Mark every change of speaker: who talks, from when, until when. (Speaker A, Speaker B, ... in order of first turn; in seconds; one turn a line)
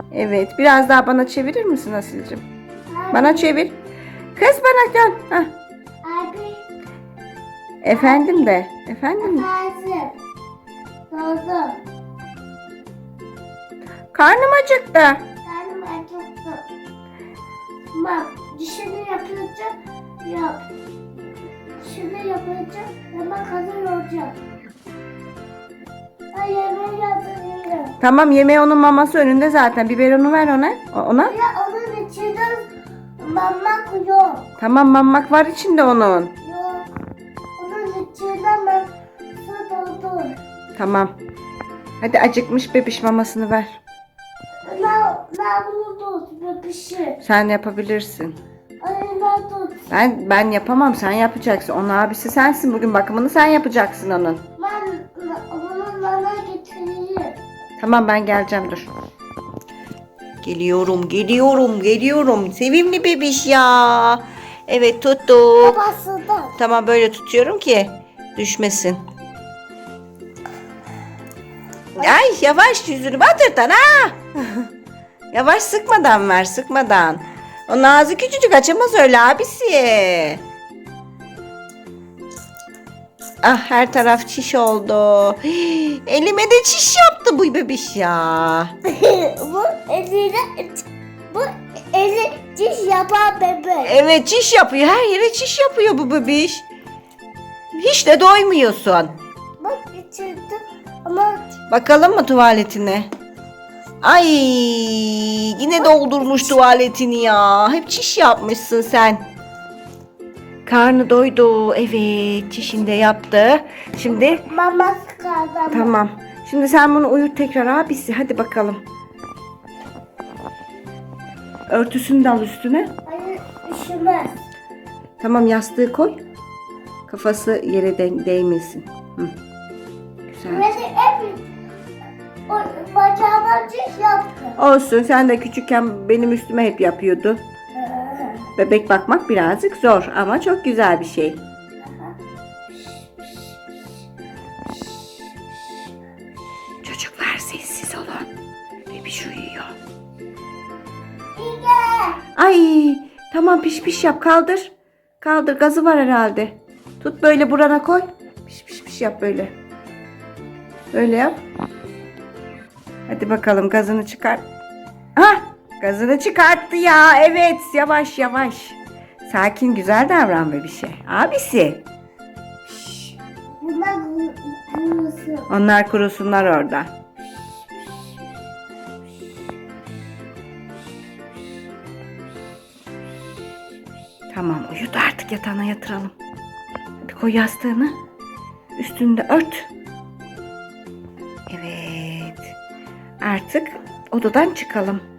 Speaker A: 0.1-2.4
Speaker B: 2.9-3.5
Speaker A: 3.1-3.8
Speaker A: 4.4-5.5
Speaker B: 6.0-6.6
Speaker A: 7.8-9.5
Speaker B: 7.9-8.4
Speaker B: 9.2-10.2
Speaker B: 11.1-11.8
Speaker A: 14.1-15.2
Speaker B: 15.4-16.6
Speaker B: 17.9-20.6
Speaker B: 21.8-24.4
Speaker B: 26.3-27.9
Speaker A: 28.0-31.3
Speaker B: 31.2-34.5
Speaker A: 34.6-36.3
Speaker B: 36.4-36.9
Speaker B: 37.6-38.9
Speaker B: 39.4-40.4
Speaker A: 40.8-41.1
Speaker A: 42.0-43.8
Speaker B: 44.7-47.2
Speaker A: 47.2-48.4
Speaker B: 48.8-49.8
Speaker A: 49.9-54.4
Speaker B: 54.6-57.4
Speaker A: 57.8-58.9
Speaker A: 60.4-65.8
Speaker B: 65.6-66.6
Speaker A: 66.6-69.0
Speaker A: 72.0-74.7
Speaker A: 75.3-80.4
Speaker A: 83.4-88.7
Speaker B: 88.8-94.0
Speaker A: 93.8-96.7
Speaker A: 97.7-99.1
Speaker B: 99.6-101.6
Speaker A: 101.7-103.1
Speaker A: 104.0-109.2
Speaker B: 105.8-106.6
Speaker A: 110.7-114.4
Speaker B: 114.5-115.9
Speaker A: 115.7-118.8
Speaker A: 121.7-122.9
Speaker B: 123.1-124.3
Speaker A: 125.2-126.2
Speaker A: 127.1-129.3
Speaker A: 130.3-130.7
Speaker B: 130.5-131.5
Speaker B: 132.5-134.6
Speaker A: 134.6-137.4
Speaker B: 137.8-138.5
Speaker A: 138.6-141.4
Speaker B: 141.8-142.1
Speaker B: 142.8-143.3
Speaker B: 144.7-145.3
Speaker A: 146.8-148.3
Speaker A: 148.9-149.7
Speaker B: 151.4-152.2
Speaker A: 152.4-159.5
Speaker A: 160.9-161.4
Speaker A: 163.1-164.4
Speaker A: 165.2-171.8
Speaker B: 172.7-175.5
Speaker A: 175.5-176.9
Speaker A: 184.3-186.1
Speaker A: 187.0-187.9
Speaker A: 188.8-189.7
Speaker A: 191.5-192.5
Speaker A: 193.2-195.0